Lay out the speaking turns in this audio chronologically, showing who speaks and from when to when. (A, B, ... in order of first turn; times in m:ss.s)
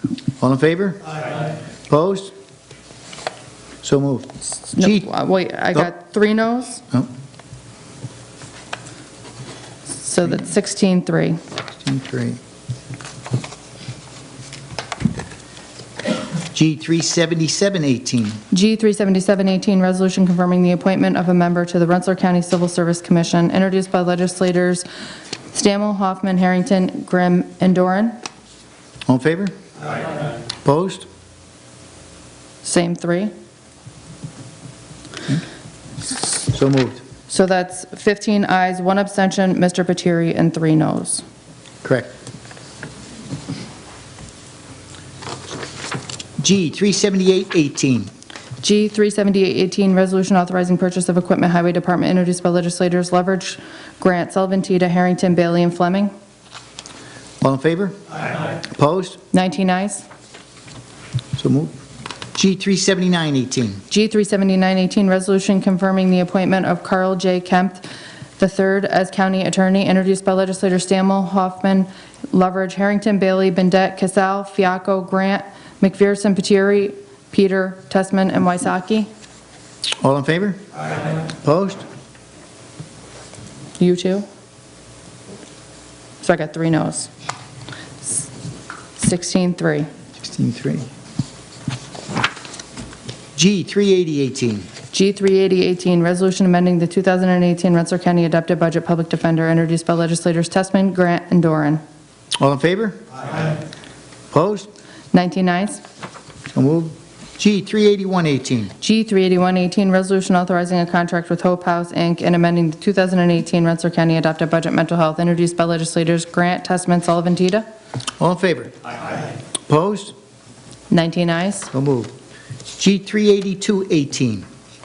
0:00.4-0:01.2 A
0:01.9-0:02.3 A
0:03.8-0:05.1 A
0:04.8-0:06.8 B
0:10.0-0:11.4 B
0:11.8-0:12.4 A
0:16.5-0:18.4 A
0:18.5-0:24.9 B
0:25.5-0:28.2 B
0:29.1-0:29.5 A
0:30.6-0:31.1 A
0:32.6-0:33.3 B
0:36.5-0:37.0 A
0:37.3-0:41.2 B
0:41.8-0:42.1 A
0:46.4-0:48.1 A
0:48.6-0:56.1 B
0:57.4-0:59.2 A
0:59.3-1:00.0 B
1:01.4-1:01.7 A
1:02.4-1:03.8 A
1:03.9-1:19.1 B
1:20.0-1:21.9 A
1:23.8-1:24.3 B
1:26.2-1:27.1 B
1:29.0-1:29.9 B
1:30.2-1:30.9 A
1:33.4-1:34.7 A
1:34.9-1:41.8 B
1:42.4-1:43.5 A
1:44.3-1:44.7 A
1:45.1-1:45.8 B
1:46.5-1:48.7 A
1:48.8-1:57.6 B
1:58.2-1:58.8 A
1:59.7-2:00.1 A
2:00.9-2:01.7 B
2:01.7-2:02.1 A
2:02.7-2:04.5 A